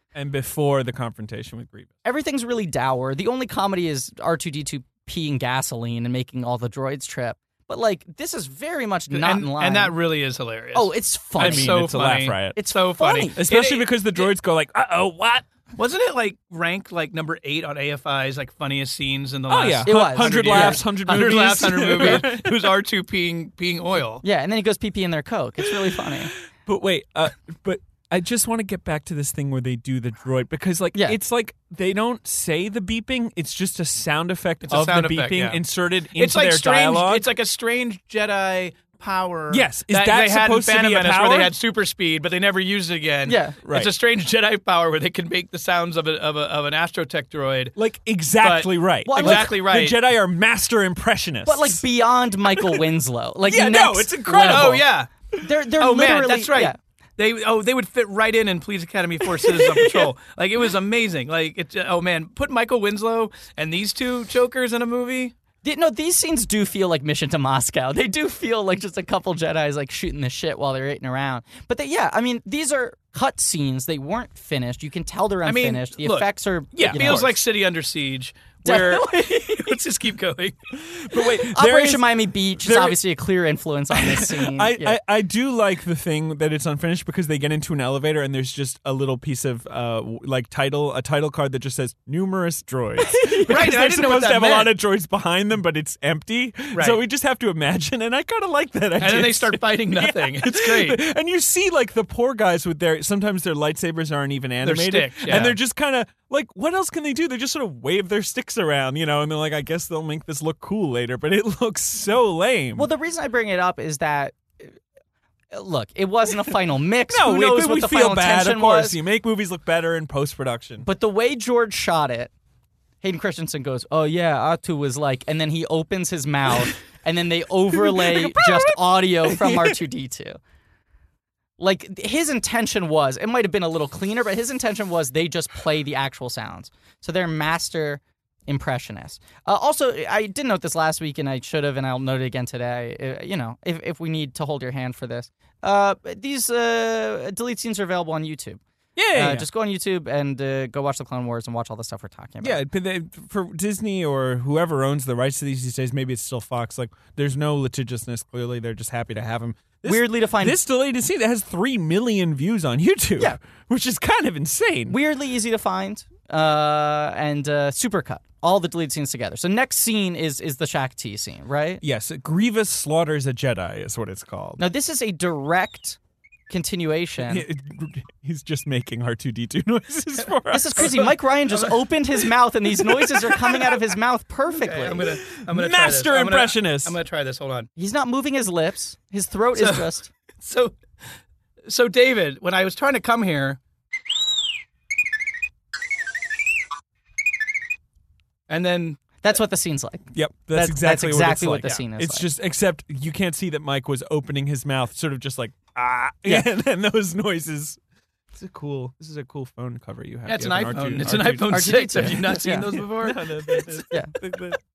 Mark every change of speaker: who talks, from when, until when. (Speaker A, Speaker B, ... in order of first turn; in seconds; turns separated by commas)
Speaker A: 0.1-1.9, Speaker B: 2.0-9.9, Speaker C: 9.1-14.3, Speaker B: 10.7-11.8, Speaker A: 11.4-12.6, Speaker B: 12.6-13.4, Speaker A: 13.4-15.5, Speaker C: 15.8-24.2, Speaker A: 19.5-22.7, Speaker B: 19.9-20.9, Speaker B: 24.2-26.3, Speaker A: 25.7-37.3, Speaker C: 34.7-35.6, Speaker C: 36.1-47.8, Speaker A: 39.5-41.5, Speaker B: 43.3-43.6, Speaker A: 43.6-43.9, Speaker A: 47.8-51.8, Speaker C: 48.4-50.0, Speaker B: 49.1-49.6, Speaker B: 51.5-56.8, Speaker A: 53.5-54.9, Speaker C: 54.4-55.1, Speaker C: 55.8-65.3, Speaker B: 59.5-60.1, Speaker B: 65.6-77.3, Speaker C: 75.5-80.6, Speaker A: 76.8-77.3, Speaker B: 78.7-79.8, Speaker A: 80.8-83.0, Speaker B: 81.4-85.0, Speaker A: 83.9-112.9, Speaker C: 93.5-94.7, Speaker C: 96.7-97.0, Speaker C: 99.0-101.0, Speaker C: 104.6-105.5, Speaker B: 112.8-114.8, Speaker B: 115.5-119.0, Speaker A: 117.1-120.9, Speaker B: 120.8-122.3, Speaker B: 123.0-130.4, Speaker A: 127.7-129.8, Speaker B: 131.6-148.6, Speaker A: 149.0-149.5, Speaker B: 149.1-152.6, Speaker A: 152.4-165.0, Speaker B: 159.8-160.6, Speaker B: 164.9-171.8, Speaker A: 171.8-174.6, Speaker B: 174.6-176.0, Speaker B: 176.5-177.5, Speaker A: 177.2-181.1, Speaker B: 180.5-185.1, Speaker C: 184.5-187.7, Speaker A: 185.4-187.0, Speaker B: 187.8-190.1, Speaker C: 189.6-189.9, Speaker C: 190.4-190.8, Speaker C: 191.7-193.6, Speaker C: 198.5-199.2, Speaker B: 199.2-202.2, Speaker A: 200.1-207.8, Speaker B: 206.2-206.5, Speaker A: 208.3-214.6, Speaker C: 210.3-213.8, Speaker B: 211.5-212.7